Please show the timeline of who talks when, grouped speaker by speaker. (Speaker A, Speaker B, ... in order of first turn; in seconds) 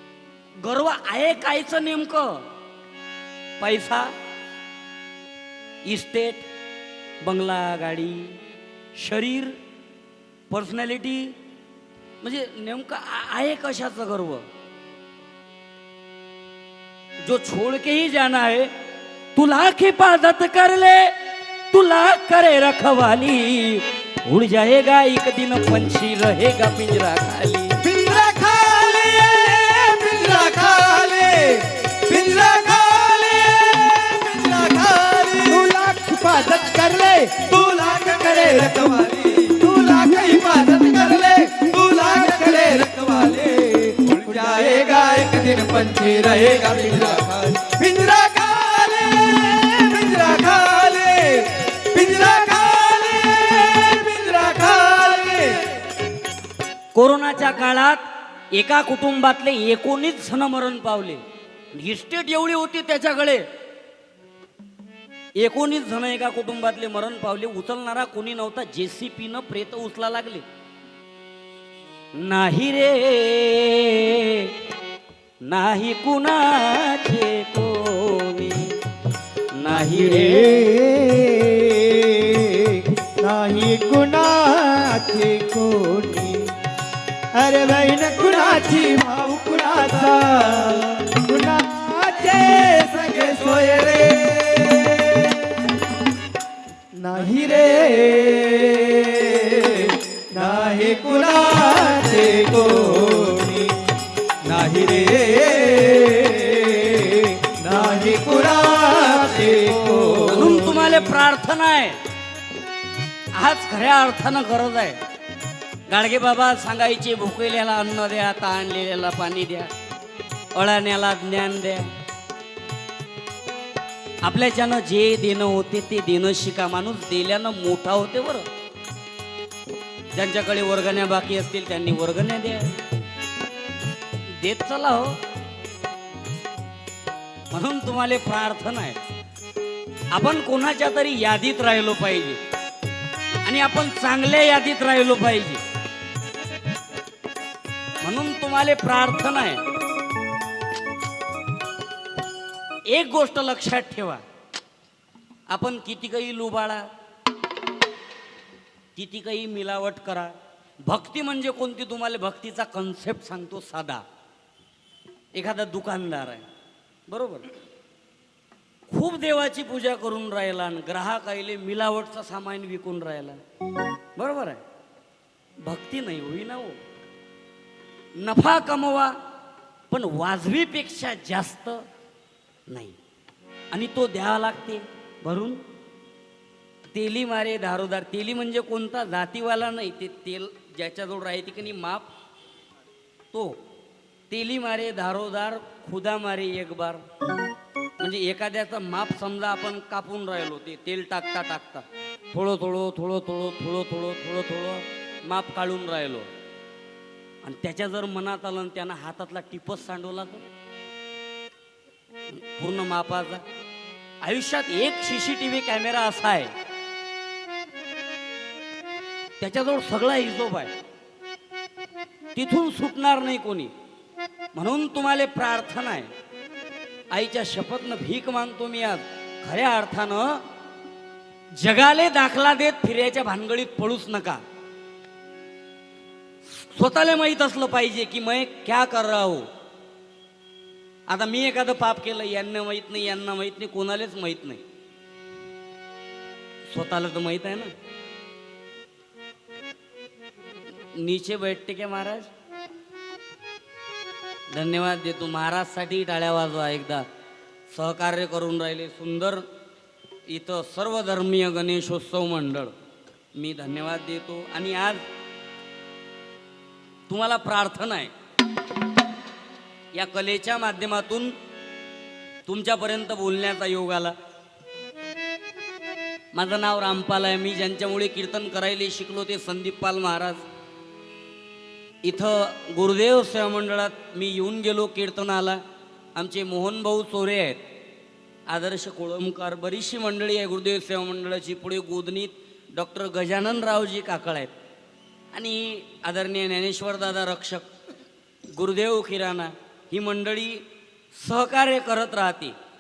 Speaker A: 0.6-2.4, 3.6-4.1, 5.9-6.5, 7.2-8.4, 8.9-9.6, 10.5-11.3, 12.2-14.4, 17.2-18.7, 19.4-21.1, 21.7-27.8, 57.0-61.2, 61.7-63.5, 65.4-70.4, 72.2-74.5, 75.5-78.8, 79.5-80.5, 110.3-112.0, 113.3-115.0, 115.9-119.7, 120.5-121.9, 124.2-128.5, 130.1-132.7, 134.4-135.2, 137.5-139.0, 140.1-142.4, 143.4-145.6, 148.0-149.6, 152.9-154.2, 155.5-156.9, 159.0-160.3, 160.9-164.0, 165.3-166.4, 167.1-167.5, 168.9-173.4, 174.2-174.6, 175.6-176.8, 178.2-179.2, 179.9-181.8, 182.7-183.0, 183.7-185.6, 186.9-192.1, 194.3-197.0, 198.0-206.3, 207.4-210.4, 212.3-213.4, 214.2-216.5, 219.4-220.7, 222.3-223.7, 224.6-226.1, 227.1-230.4, 231.6-234.4, 236.6-239.5, 241.1-244.6, 246.7-247.7, 251.0-252.3, 254.5-257.0, 257.7-259.4, 260.3-262.7, 263.4-265.0, 267.1-268.1, 269.9-271.3, 272.5-274.1, 276.3-280.4, 282.0-285.6, 286.2-287.6, 288.5-294.5, 295.3-297.7, 298.6-300.6, 301.2-302.6
Speaker B: 27.9-35.7, 37.5-55.6, 88.2-91.0, 92.5-95.5, 97.2-103.7, 104.4-110.6
Speaker C: 35.5-37.4, 39.6-40.4, 79.7-86.5, 87.3-90.5, 91.1-93.5, 97.0-97.5, 103.1-103.5